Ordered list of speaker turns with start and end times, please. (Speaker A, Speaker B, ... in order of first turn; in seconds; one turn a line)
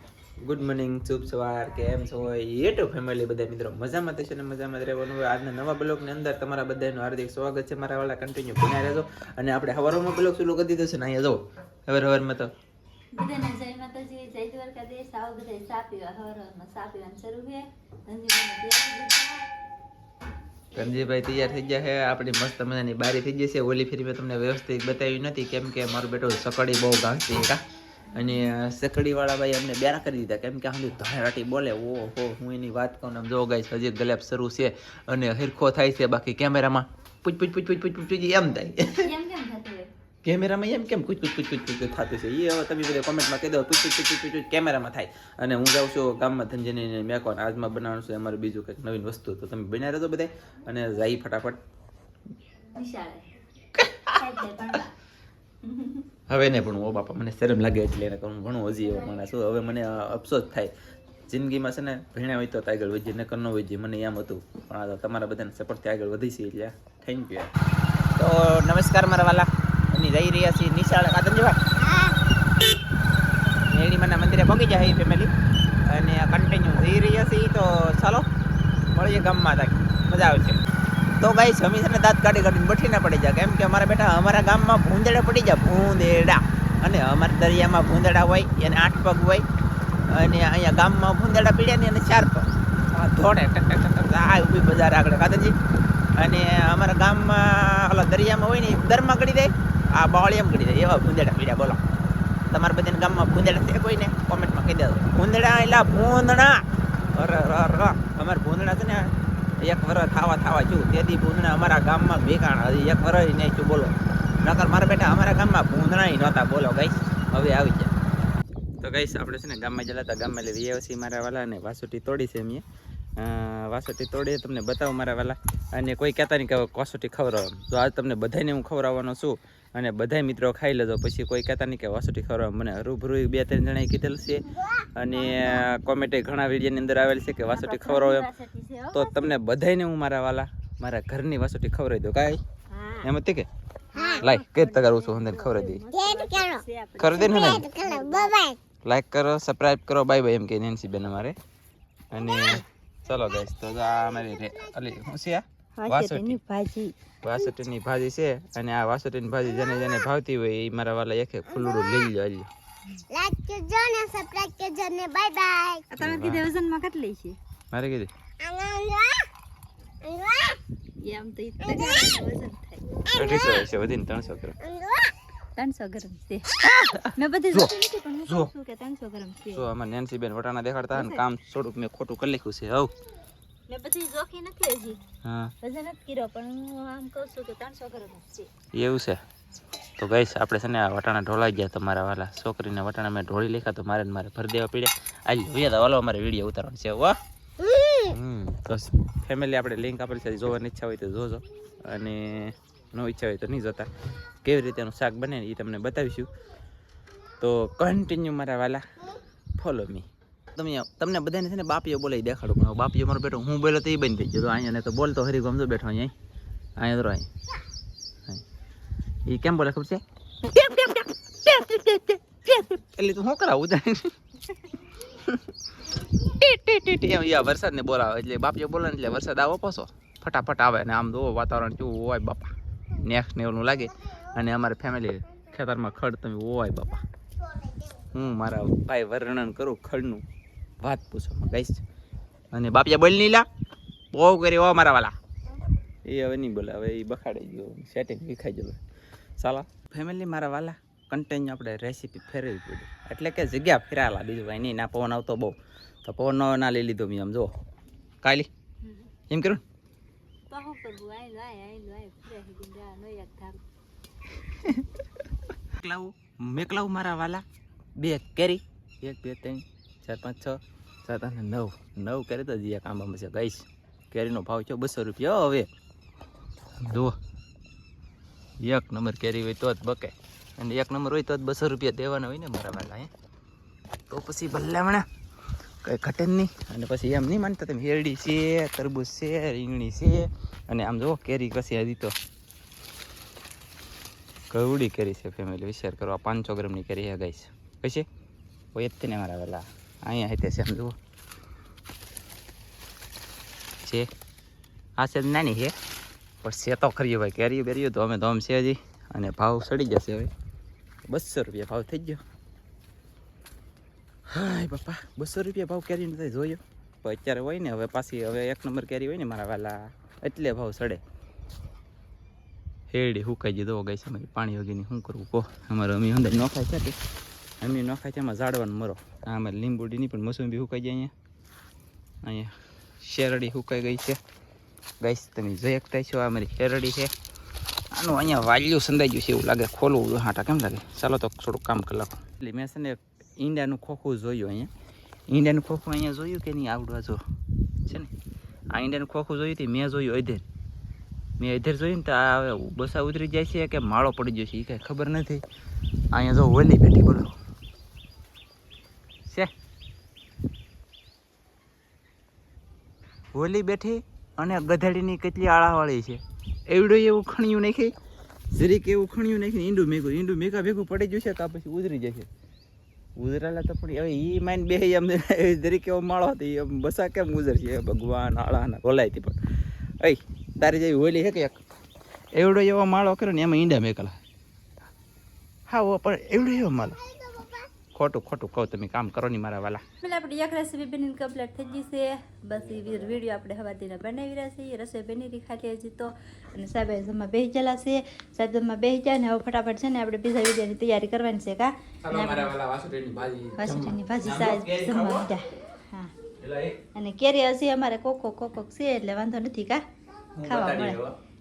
Speaker A: 0.4-12.5
Speaker B: 13.1-19.5
Speaker A: 20.7-27.6
Speaker B: 28.1-28.4
Speaker A: 28.1-39.1
Speaker B: 39.0-39.9
Speaker A: 40.2-51.6
Speaker B: 52.7-53.3
Speaker A: 53.8-54.2
Speaker B: 54.1-54.9
Speaker B: 55.6-56.0
Speaker A: 56.3-60.7
Speaker A: 61.3-67.5
Speaker A: 68.2-71.6
Speaker C: 71.9-72.2
Speaker A: 73.7-75.3
Speaker A: 75.8-78.3
Speaker A: 78.9-80.6
Speaker A: 81.2-89.5
Speaker A: 90.1-95.5
Speaker A: 96.2-101.8
Speaker A: 102.5-106.6
Speaker A: 107.2-109.1
Speaker A: 109.6-117.9
Speaker A: 118.8-122.6
Speaker A: 123.2-138.3
Speaker B: 137.5-139.3
Speaker A: 138.9-142.4
Speaker B: 142.7-143.1
Speaker A: 143.0-143.5
Speaker B: 143.9-148.4
Speaker A: 144.1-145.9
Speaker C: 145.9-146.6
Speaker A: 147.0-147.7
Speaker C: 147.2-148.6
Speaker A: 148.8-151.4
Speaker A: 152.1-156.4
Speaker B: 155.8-156.9
Speaker A: 157.2-162.5
Speaker C: 163.1-165.9
Speaker B: 165.9-167.4
Speaker A: 166.0-166.5
Speaker A: 167.7-168.1
Speaker C: 168.4-169.3
Speaker C: 170.0-170.6
Speaker B: 171.0-172.8
Speaker A: 173.1-174.6
Speaker C: 174.7-175.1
Speaker B: 175.6-179.7
Speaker A: 176.7-177.7
Speaker A: 178.2-178.5
Speaker A: 179.5-182.9
Speaker B: 180.9-181.2
Speaker B: 183.7-185.0
Speaker A: 185.2-185.5
Speaker B: 185.6-188.5
Speaker A: 188.7-189.2
Speaker A: 190.0-197.2
Speaker A: 198.0-203.9
Speaker A: 204.4-206.3
Speaker A: 207.4-208.8
Speaker A: 209.6-216.1
Speaker A: 216.8-217.3
Speaker A: 219.3-224.1
Speaker A: 225.1-225.5
Speaker A: 226.2-237.0
Speaker A: 238.1-240.2
Speaker A: 240.8-241.8
Speaker A: 242.5-243.5
Speaker A: 244.1-245.1
Speaker A: 246.1-248.8
Speaker A: 249.4-257.5
Speaker A: 258.2-258.5
Speaker A: 259.3-259.6
Speaker B: 260.5-263.6
Speaker A: 264.5-265.0
Speaker A: 265.7-267.4
Speaker A: 268.0-275.7
Speaker A: 276.8-277.1
Speaker A: 278.6-283.1
Speaker A: 284.1-285.1
Speaker A: 285.8-292.1
Speaker A: 294.5-298.1
Speaker A: 298.7-300.9
Speaker A: 305.0-305.7
Speaker A: 306.4-310.3
Speaker A: 311.1-312.2
Speaker A: 314.3-321.0
Speaker A: 322.9-327.0
Speaker A: 327.6-331.1
Speaker A: 332.2-334.2
Speaker A: 335.0-337.1
Speaker A: 337.9-344.7
Speaker A: 345.3-347.2
Speaker A: 347.9-348.1
Speaker A: 348.7-350.4
Speaker A: 351.4-355.4
Speaker A: 356.1-357.3
Speaker A: 363.3-367.9
Speaker A: 368.5-372.3
Speaker A: 373.2-379.4
Speaker A: 380.0-381.6
Speaker A: 382.3-384.2
Speaker A: 385.7-387.0
Speaker A: 387.9-389.8
Speaker B: 390.0-402.6
Speaker A: 402.0-405.3
Speaker B: 403.6-406.1
Speaker A: 406.4-406.9
Speaker B: 406.9-409.8
Speaker A: 410.3-411.1
Speaker B: 410.4-411.0